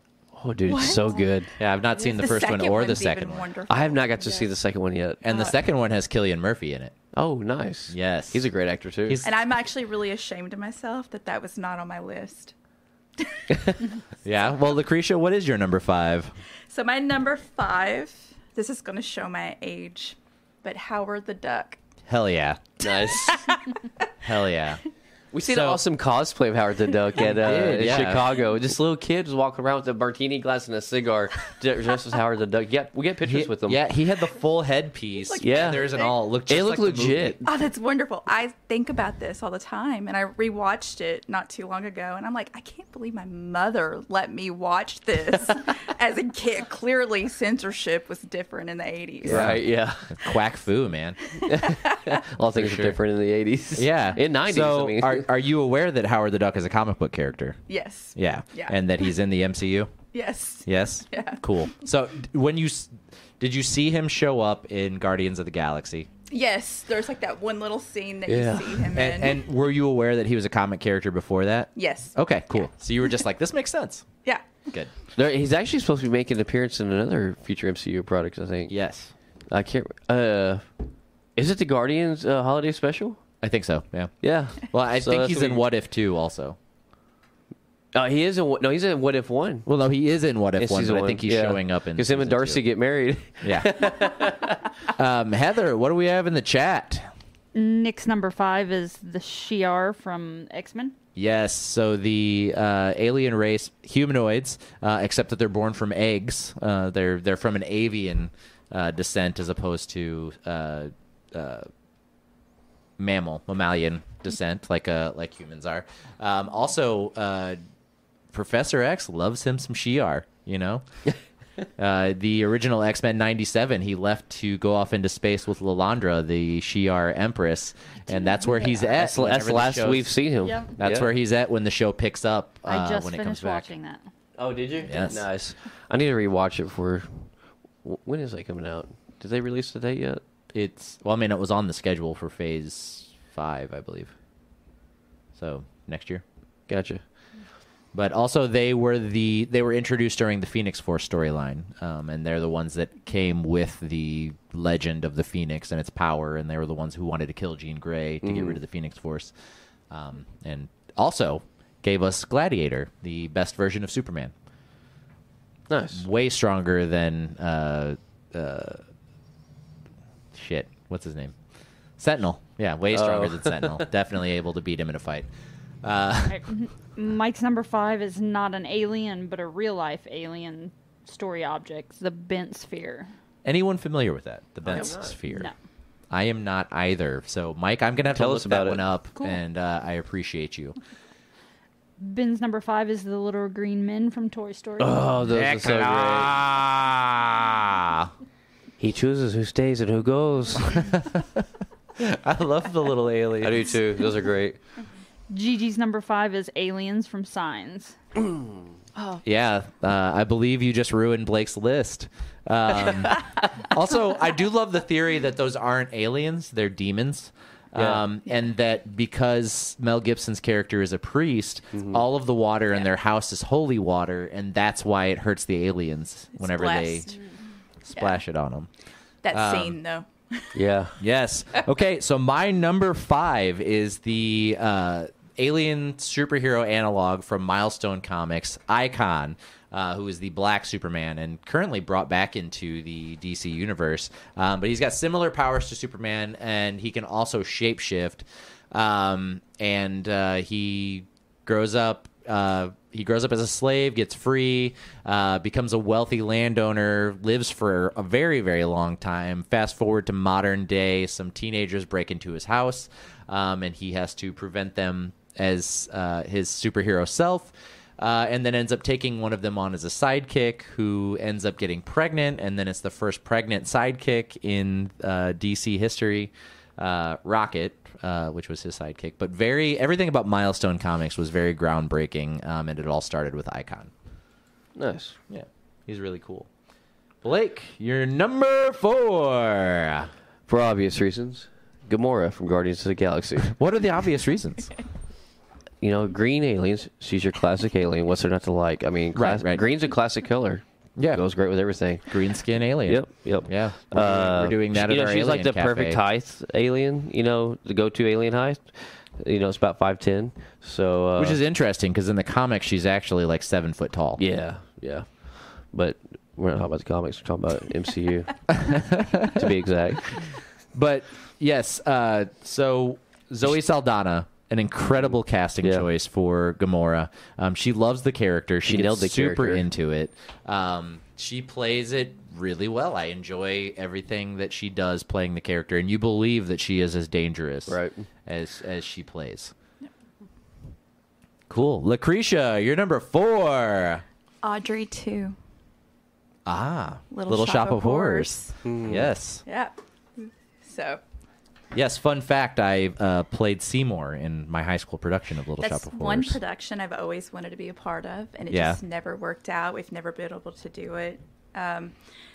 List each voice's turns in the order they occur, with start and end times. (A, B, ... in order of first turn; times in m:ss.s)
0:00.4-0:01.5 A
0:00.7-0:01.3 B
0:01.6-0:03.4 C
0:01.9-0:04.5 B
0:03.7-0:05.2 A
0:05.2-0:06.9 C
0:05.3-0:05.5 B
0:07.1-0:09.2 A
0:07.9-0:08.4 C
0:09.1-0:09.3 C
0:09.2-0:12.5 B
0:13.2-0:13.4 B
0:14.2-0:16.3 C
0:16.7-0:21.8 B
0:22.1-0:22.7 C
0:22.8-0:23.5 A
0:23.1-0:23.9 B
0:24.2-0:24.8 C
0:25.3-0:33.8 A
0:25.4-0:25.8 C
0:27.2-0:28.4 C
0:33.2-0:37.4 C
0:35.2-0:36.2 B
0:35.4-0:35.8 A
0:36.5-0:37.4 A
0:37.4-0:49.6 B
0:49.2-0:50.2 A
0:49.3-0:51.2 C
0:51.2-0:52.2 B
0:51.4-0:55.2 A
0:52.5-0:53.0 C
0:53.8-0:57.6 C
0:57.7-0:58.8 B
0:58.2-0:59.9 C
1:00.1-1:01.4 B
1:00.6-1:06.1 C
1:06.3-1:09.4 B
1:08.3-1:08.9 A
1:08.9-1:14.0 C
1:11.8-1:12.7 B
1:14.2-1:14.6 B
1:15.1-1:18.7 A
1:18.7-1:19.1 C
1:19.5-1:20.6 A
1:21.4-1:23.2 A
1:23.4-1:26.6 C
1:24.2-1:25.6 A
1:27.9-1:29.7 A
1:29.6-1:32.6 C
1:30.6-1:34.6 A
1:33.4-1:34.1 C
1:34.9-1:37.1 C
1:37.5-1:40.9 D
1:41.2-1:51.7 C
1:53.0-1:57.6 C
1:58.3-2:00.8 C
2:01.8-2:10.1 C
2:08.3-2:08.9 D
2:08.9-2:11.1 A
2:10.4-2:10.7 D
2:10.8-2:13.7 C
2:12.6-2:14.0 D
2:14.4-2:17.3 A
2:14.8-2:15.2 C
2:17.8-2:20.2 A
2:20.5-2:24.1 C
2:25.3-2:26.2 C
2:26.7-2:27.0 A
2:27.9-2:39.3 C
2:38.2-2:38.6 A
2:39.9-2:44.3 C
2:45.7-2:46.0 A
2:45.9-2:48.8 C
2:50.3-2:51.3 C
2:52.0-2:55.3 C
2:52.9-2:53.9 A
2:55.8-2:56.4 C
2:56.3-3:03.1 D
3:03.4-3:05.5 C
3:04.6-3:05.2 A
3:06.1-3:10.8 C
3:08.1-3:08.8 A
3:12.0-3:15.1 D
3:14.8-3:16.4 A
3:15.3-3:18.1 C
3:18.8-3:20.8 A
3:20.6-3:21.4 C
3:22.0-3:23.7 C
3:23.4-3:24.6 A
3:25.3-3:28.0 D
3:29.0-3:29.2 B
3:29.2-3:47.1 C
3:37.7-3:38.0 A
3:41.7-3:42.0 A
3:46.4-3:47.2 B
3:47.8-3:48.7 C
3:47.9-3:48.2 B
3:49.2-3:50.5 B
3:49.3-3:49.8 C
3:50.5-3:51.0 A
3:51.0-4:43.9 C
4:44.8-4:45.2 A
4:45.3-4:46.5 C
4:47.2-4:50.1 C
4:50.5-4:53.5 A
4:53.4-4:54.7 C
4:55.8-5:02.2 A
4:59.1-4:59.6 C
5:01.0-5:01.2 C
5:02.1-5:06.0 C
5:02.8-5:11.4 A
5:11.2-5:14.2 C
5:14.2-5:20.3 A
5:18.5-5:19.5 C
5:20.7-5:39.5 C
5:25.6-5:25.9 A
5:28.6-5:29.6 A
5:37.7-5:38.1 A
5:41.5-5:44.0 C
5:44.4-5:45.4 B
5:46.4-5:49.4 C
5:47.1-5:48.6 B
5:48.6-5:49.1 A
5:49.4-5:51.0 B
5:51.7-5:56.4 C
5:55.6-6:01.9 B
5:58.5-5:58.8 C